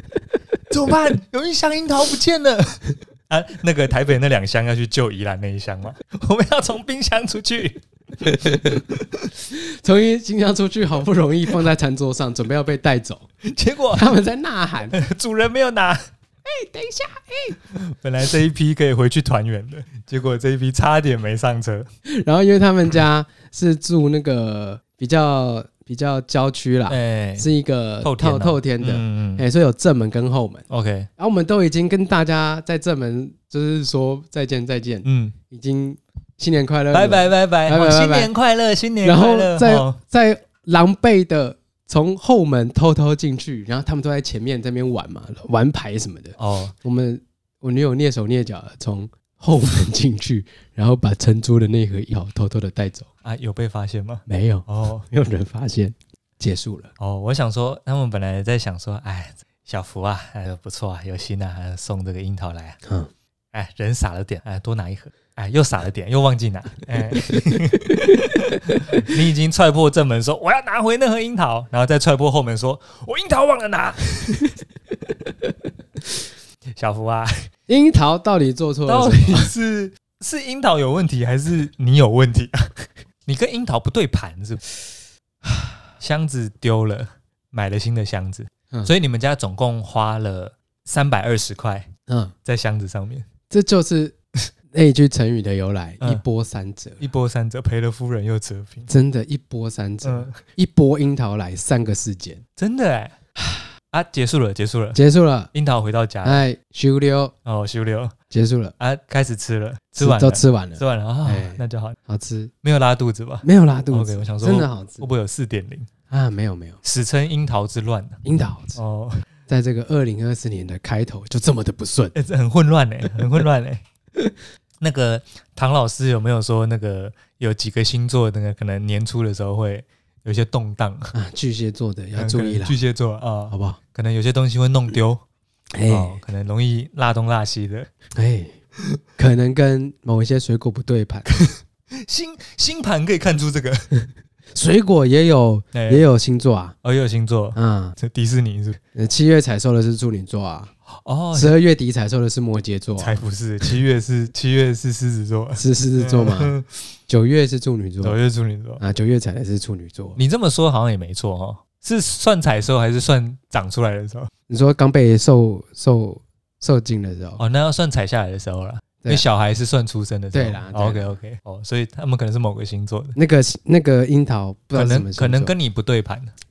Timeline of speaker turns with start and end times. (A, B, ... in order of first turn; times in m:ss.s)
0:00.7-0:09.3 A
0:09.5-0:13.3 B
0:13.4-0:14.1 A
0:13.9-0:15.0 B
0:14.9-0:16.0 A
0:16.4-0:17.6 B
0:17.7-0:21.9 A
0:22.1-0:30.6 B
0:26.9-0:27.5 A
0:28.0-0:29.4 A
0:30.7-0:31.1 A
0:31.2-0:38.3 B
0:35.0-0:35.4 A
0:36.9-0:40.0 A
0:39.0-0:53.1 B
0:46.4-0:46.7 A
0:53.2-0:55.0 A
0:54.3-0:56.9 B
0:57.0-1:02.8 A
1:02.8-1:03.1 B
1:03.5-1:14.6 A
1:16.8-1:17.5 A
1:17.7-1:19.5 B
1:18.8-1:24.8 A
1:26.0-1:31.9 A
1:32.1-1:32.3 B
1:32.4-1:33.3 A
1:33.5-1:34.1 B
1:34.7-1:37.0 B
1:37.0-1:38.9 A
1:38.9-1:42.4 B
1:40.0-1:40.4 A
1:42.6-1:43.2 A
1:43.4-1:43.7 B
1:43.9-1:45.0 A
1:44.9-1:45.5 B
1:45.5-1:46.4 A
1:46.2-1:47.3 B
1:47.4-1:48.1 A
1:48.3-1:48.7 B
1:48.8-1:52.0 A
1:50.0-1:52.5 B
1:52.6-1:55.9 A
1:53.4-1:55.0 B
1:56.1-1:56.8 B
1:56.8-1:58.2 A
1:58.2-1:58.8 B
1:58.8-1:59.2 A
1:59.5-2:02.1 B
2:02.1-2:03.8 A
2:04.8-2:11.1 A
2:11.1-2:12.8 B
2:12.2-2:15.2 A
2:13.5-2:13.8 B
2:15.8-2:16.2 B
2:15.9-2:17.9 A
2:18.1-2:18.5 B
2:19.2-2:21.3 B
2:21.3-2:24.0 A
2:24.5-2:26.8 B
2:25.7-2:26.0 A
2:26.8-2:28.8 A
2:27.6-2:28.0 B
2:28.9-2:30.7 B
2:30.9-2:31.6 A
2:31.3-2:33.1 B
2:33.0-2:36.7 A
2:35.6-2:36.5 B
2:37.1-2:38.2 B
2:38.0-2:38.8 A
2:38.8-2:40.2 B
2:40.2-2:44.3 A
2:44.5-2:47.4 B
2:47.4-2:53.2 A
2:50.3-2:51.1 B
2:53.2-2:55.5 B
2:54.7-2:56.3 A